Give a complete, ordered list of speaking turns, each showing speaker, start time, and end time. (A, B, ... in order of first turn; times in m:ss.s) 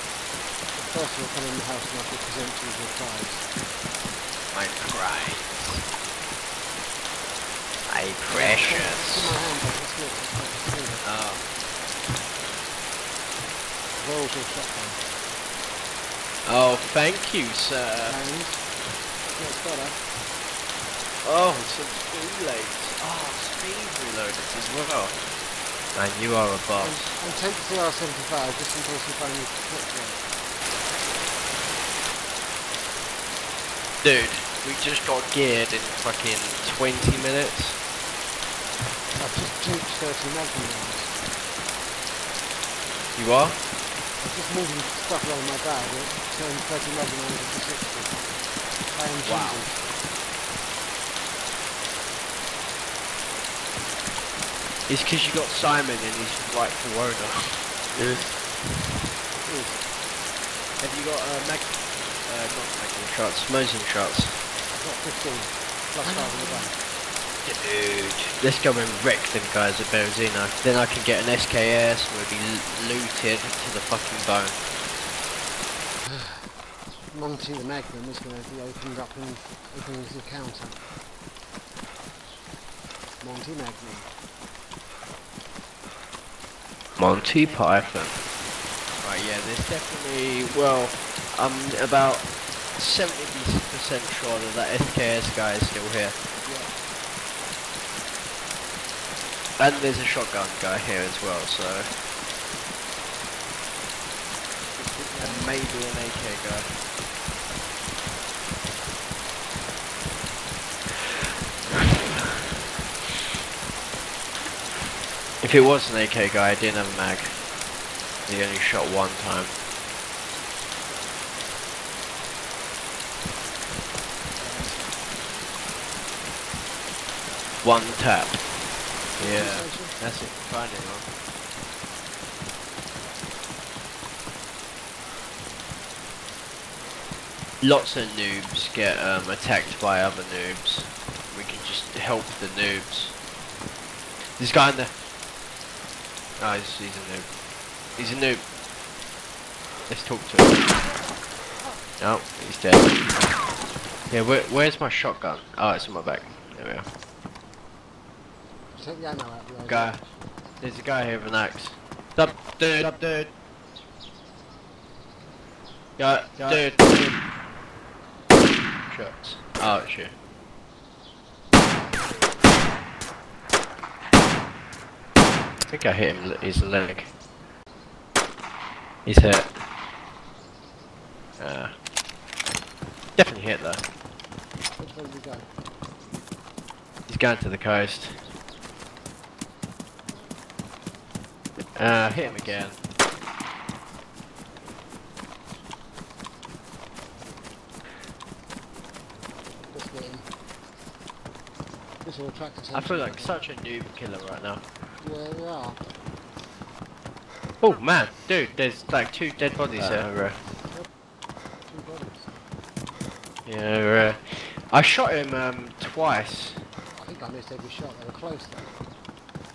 0:00.8-0:03.5 A
0:04.5-0:05.9 B
0:07.9-0:09.4 B
0:08.3-0:11.1 A
0:11.0-0:11.4 B
0:14.0-0:15.0 A
0:16.4-0:18.2 B
0:18.1-0:18.7 A
0:19.2-0:20.0 A
0:21.2-0:25.2 B
0:25.9-0:27.2 B
0:26.8-0:30.2 A
0:34.0-0:37.8 B
0:39.2-0:41.1 A
0:43.2-0:43.6 B
0:44.2-0:48.2 A
0:48.9-0:49.8 A
0:49.2-0:49.7 B
0:54.9-0:57.6 B
0:59.4-0:59.8 A
1:00.8-1:04.4 B
1:04.7-1:06.8 A
1:06.0-1:06.7 B
1:07.4-1:14.6 B
1:16.0-1:16.5 A
1:17.1-1:20.8 A
1:23.2-1:24.1 A
1:27.0-1:28.2 B
1:29.0-1:36.2 B
1:36.4-1:36.8 A
1:39.6-1:42.0 B
1:44.7-1:45.8 A
1:45.2-1:46.8 B
1:55.4-1:57.5 B
1:58.3-1:59.5 B
2:04.4-2:05.4 A
2:07.6-2:08.4 B
2:09.2-2:11.1 B
2:09.2-2:10.0 A
2:17.6-2:23.2 B
2:24.2-2:24.9 B
2:26.4-2:27.3 B
2:28.0-2:28.4 B
2:29.9-2:30.7 B
2:32.0-2:33.0 B
2:34.1-2:36.8 B
2:38.7-2:40.0 A
2:39.6-2:40.0 B
2:40.6-2:43.3 B
2:46.0-2:47.1 B
2:48.9-2:50.1 B
2:55.7-2:57.1 B
2:59.0-2:59.6 B
3:01.4-3:01.7 B
3:03.2-3:03.8 B
3:04.8-3:05.5 A
3:07.1-3:08.2 B
3:11.8-3:12.8 B
3:12.1-3:12.8 A
3:19.7-3:20.3 A
3:22.0-3:23.5 A
3:22.7-3:24.6 B
3:25.0-3:25.8 A
3:27.6-3:30.4 B
3:31.7-3:32.3 A
3:33.5-3:36.6 B
3:37.0-3:38.7 A